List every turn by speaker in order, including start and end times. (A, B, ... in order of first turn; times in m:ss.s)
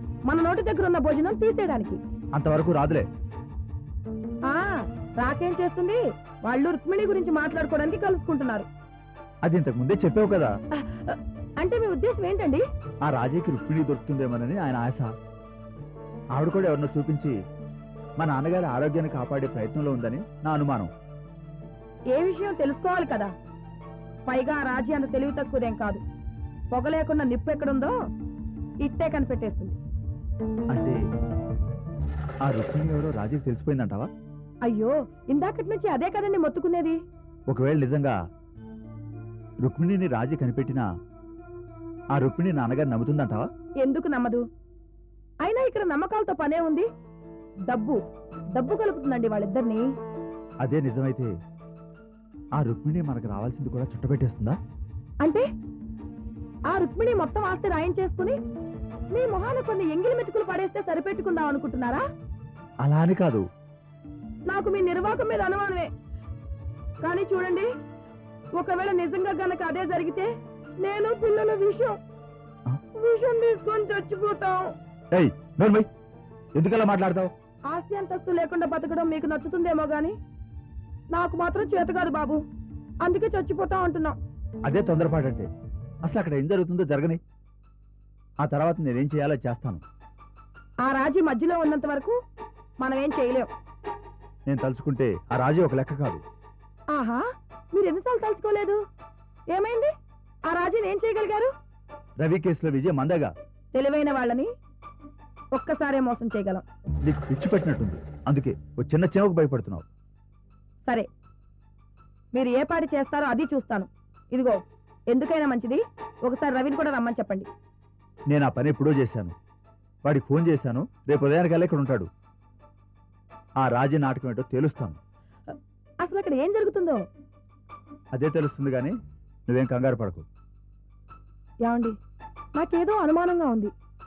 0:00.3-0:02.0 A
0:02.3-0:03.1 B
0:04.5-0:08.7 A
0:09.4-0:10.5 B
0:10.8-0:12.6 A
0:13.0-0:15.1 B
0:16.4-0:17.3 B
0:18.2-0:20.9 B
0:22.1-0:23.3 A
0:24.3-0:26.0 A
0:26.7-0:27.9 A
0:28.8-0:29.8 A
0:30.7-0:31.0 B
0:32.4-0:34.1 B
0:34.6-0:37.0 A
0:37.5-0:38.1 B
0:39.6-0:40.8 B
0:42.2-0:43.5 B
0:43.8-0:44.4 A
0:45.4-0:46.9 A
0:47.7-0:48.0 A
0:48.6-0:49.8 A
0:50.6-0:51.3 B
0:52.6-0:54.6 B
0:56.7-0:58.4 A
0:59.1-1:02.0 A
1:02.8-1:03.4 B
1:04.5-1:05.9 A
1:07.0-1:07.7 A
1:08.6-1:10.3 A
1:10.8-1:12.0 A
1:13.0-1:14.7 A
1:15.1-1:15.9 B
1:16.6-1:17.3 B
1:17.7-1:20.2 A
1:21.1-1:22.4 A
1:23.0-1:24.2 A
1:24.6-1:25.5 B
1:26.0-1:27.2 B
1:28.4-1:29.8 B
1:30.9-1:32.1 A
1:32.8-1:33.5 A
1:34.5-1:36.2 B
1:37.0-1:37.2 A
1:37.7-1:38.8 A
1:39.5-1:39.9 A
1:40.5-1:41.5 A
1:42.2-1:43.3 B
1:43.7-1:44.5 A
1:45.6-1:46.6 A
1:47.0-1:49.9 B
1:52.3-1:54.6 A
1:55.1-1:57.5 A
1:58.3-1:59.3 B
2:00.0-2:02.1 B
2:03.6-2:05.0 B
2:06.0-2:07.0 A
2:08.1-2:08.9 B
2:09.5-2:10.2 B
2:11.7-2:12.0 A
2:12.6-2:13.7 A